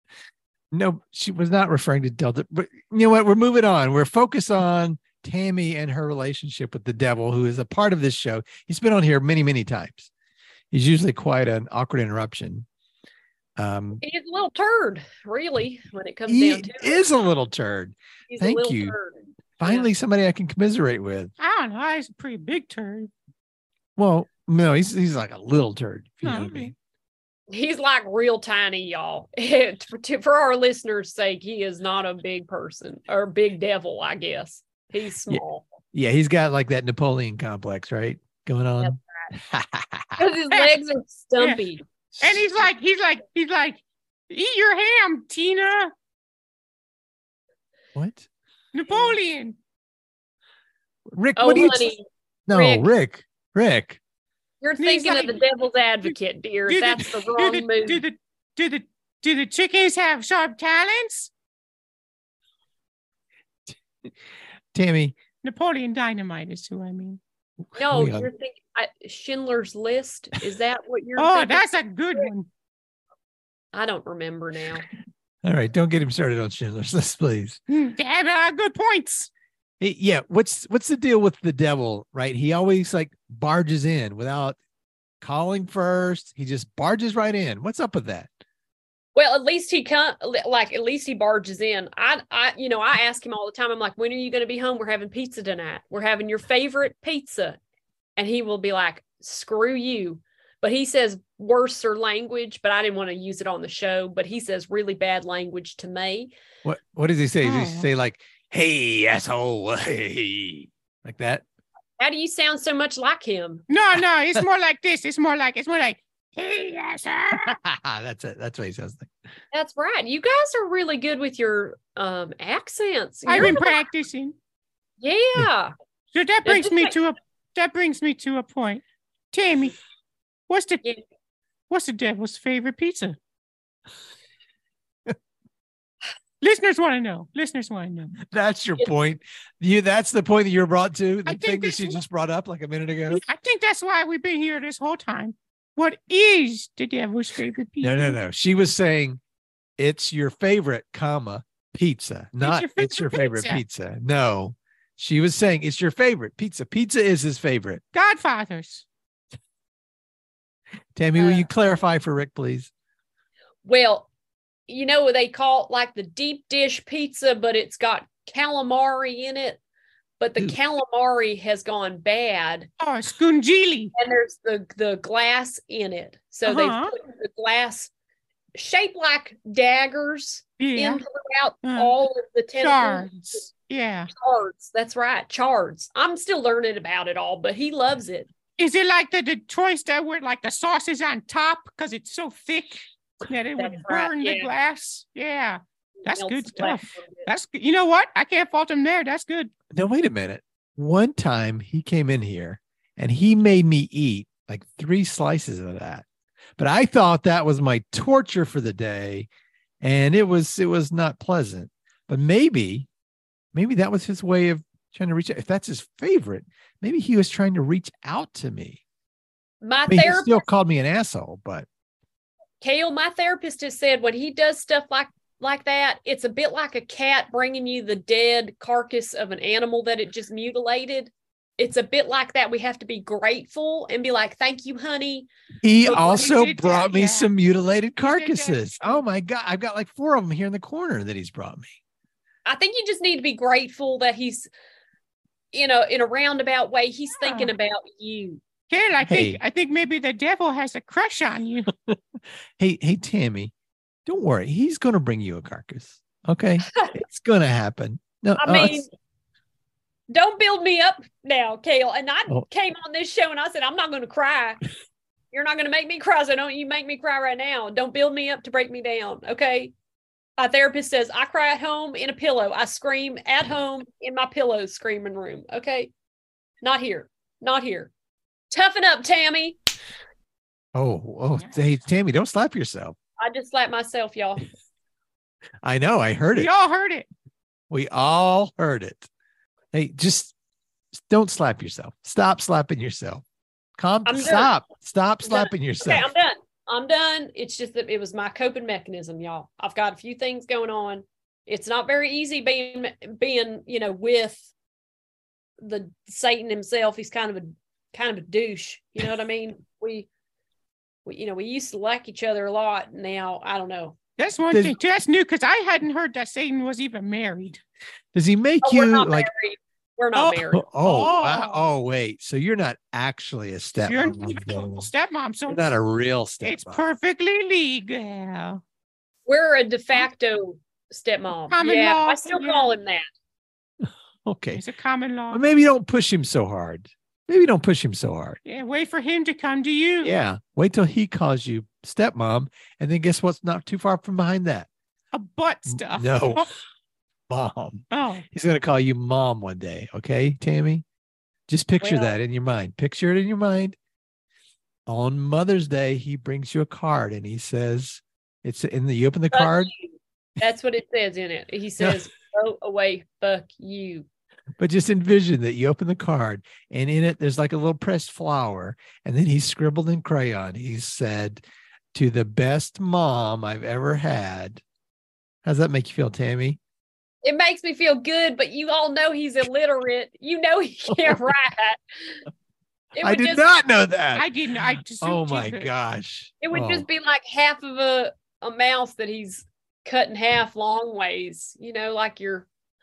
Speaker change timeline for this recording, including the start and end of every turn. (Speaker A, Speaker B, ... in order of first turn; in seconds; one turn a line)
Speaker A: 0.7-10.1
Speaker A: 10.7-12.7
Speaker A: 13.6-14.0
Speaker B: 14.0-17.0
Speaker A: 16.3-18.9
Speaker B: 18.3-19.9
Speaker A: 19.6-21.3
Speaker C: 21.4-23.1
Speaker A: 24.0-26.7
Speaker C: 26.2-26.7
Speaker B: 27.5-35.6
Speaker A: 35.9-40.2
Speaker B: 38.8-39.3
Speaker B: 40.2-41.8
Speaker A: 42.1-42.4
Speaker C: 42.2-45.9
Speaker A: 47.9-48.3
Speaker C: 48.7-49.5
Speaker A: 51.1-52.0
Speaker B: 51.4-52.9
Speaker A: 52.5-54.0
Speaker B: 54.6-58.0
Speaker C: 54.8-55.4
Speaker C: 56.7-61.3
Speaker A: 64.7-65.2
Speaker C: 65.4-67.2
Speaker A: 67.7-68.3
Speaker B: 67.8-71.7
Speaker C: 71.2-72.5
Speaker B: 73.7-74.8
Speaker A: 75.4-77.6
Speaker C: 77.7-79.3
Speaker A: 79.8-84.6
Speaker A: 85.2-88.3
Speaker B: 89.1-97.6
Speaker B: 98.2-106.3
Speaker A: 106.6-111.4
Speaker C: 107.4-107.9
Speaker B: 112.0-113.6
Speaker C: 113.7-117.6
Speaker A: 117.3-119.1
Speaker B: 119.5-123.8
Speaker C: 123.2-124.3
Speaker B: 125.0-125.7
Speaker C: 126.1-129.8
Speaker B: 126.4-126.9
Speaker C: 130.5-130.8
Speaker C: 131.7-133.2
Speaker C: 136.4-138.2
Speaker A: 138.2-143.2
Speaker C: 141.2-142.0
Speaker C: 143.1-148.2
Speaker A: 147.8-149.2
Speaker A: 149.8-157.8
Speaker C: 152.4-153.6
Speaker C: 157.9-158.8
Speaker A: 160.9-162.7
Speaker B: 161.2-161.4
Speaker B: 163.6-164.1
Speaker B: 164.7-169.6
Speaker B: 170.2-172.7
Speaker C: 172.8-173.9
Speaker B: 173.9-177.9
Speaker C: 176.4-176.9
Speaker B: 178.5-183.1
Speaker C: 180.6-181.0
Speaker C: 181.6-181.9
Speaker C: 182.6-184.1
Speaker B: 184.1-188.3
Speaker C: 188.6-199.5
Speaker B: 193.6-194.5
Speaker B: 196.0-197.3
Speaker A: 199.7-206.1
Speaker A: 206.6-209.3
Speaker A: 209.8-212.9
Speaker A: 213.5-218.8
Speaker B: 219.6-220.5
Speaker A: 219.9-221.7
Speaker B: 222.6-235.3
Speaker A: 235.6-241.7
Speaker C: 235.8-237.3
Speaker C: 238.0-239.0
Speaker B: 242.4-244.5
Speaker B: 245.5-248.4
Speaker C: 247.2-247.5
Speaker C: 248.7-251.7
Speaker A: 249.0-249.4
Speaker A: 251.8-253.5
Speaker A: 254.1-258.8
Speaker B: 258.4-258.9
Speaker B: 260.1-264.6
Speaker B: 265.3-269.7
Speaker B: 270.4-275.9
Speaker B: 276.6-277.9
Speaker B: 278.5-279.6
Speaker A: 280.7-282.9
Speaker B: 283.2-284.5
Speaker A: 285.6-286.5
Speaker C: 286.3-287.1
Speaker A: 287.7-289.1
Speaker A: 289.7-290.3
Speaker A: 290.9-293.2
Speaker A: 293.8-296.1
Speaker B: 294.0-294.5
Speaker B: 295.2-304.4
Speaker B: 305.6-310.1
Speaker B: 311.0-314.0
Speaker C: 314.2-317.6
Speaker A: 314.5-314.8
Speaker A: 318.1-319.3
Speaker B: 318.6-320.6
Speaker C: 320.1-321.6
Speaker A: 320.5-324.9
Speaker C: 323.8-325.7
Speaker A: 325.5-326.8
Speaker C: 326.4-328.6
Speaker B: 329.3-333.1
Speaker C: 331.5-332.7
Speaker A: 333.8-334.6
Speaker C: 334.5-335.4
Speaker A: 335.3-338.4
Speaker C: 338.4-340.1
Speaker A: 340.0-344.7
Speaker C: 345.1-346.5
Speaker A: 345.7-346.5
Speaker A: 347.3-350.8
Speaker C: 347.9-348.2
Speaker A: 351.5-353.8
Speaker B: 351.8-352.1
Speaker A: 354.9-359.7
Speaker B: 359.3-364.1
Speaker A: 364.6-371.4
Speaker A: 371.9-374.6
Speaker A: 375.4-376.6
Speaker B: 377.2-382.2
Speaker B: 382.9-383.4
Speaker A: 383.0-384.2
Speaker C: 384.1-385.7
Speaker A: 385.0-386.9
Speaker B: 386.4-392.5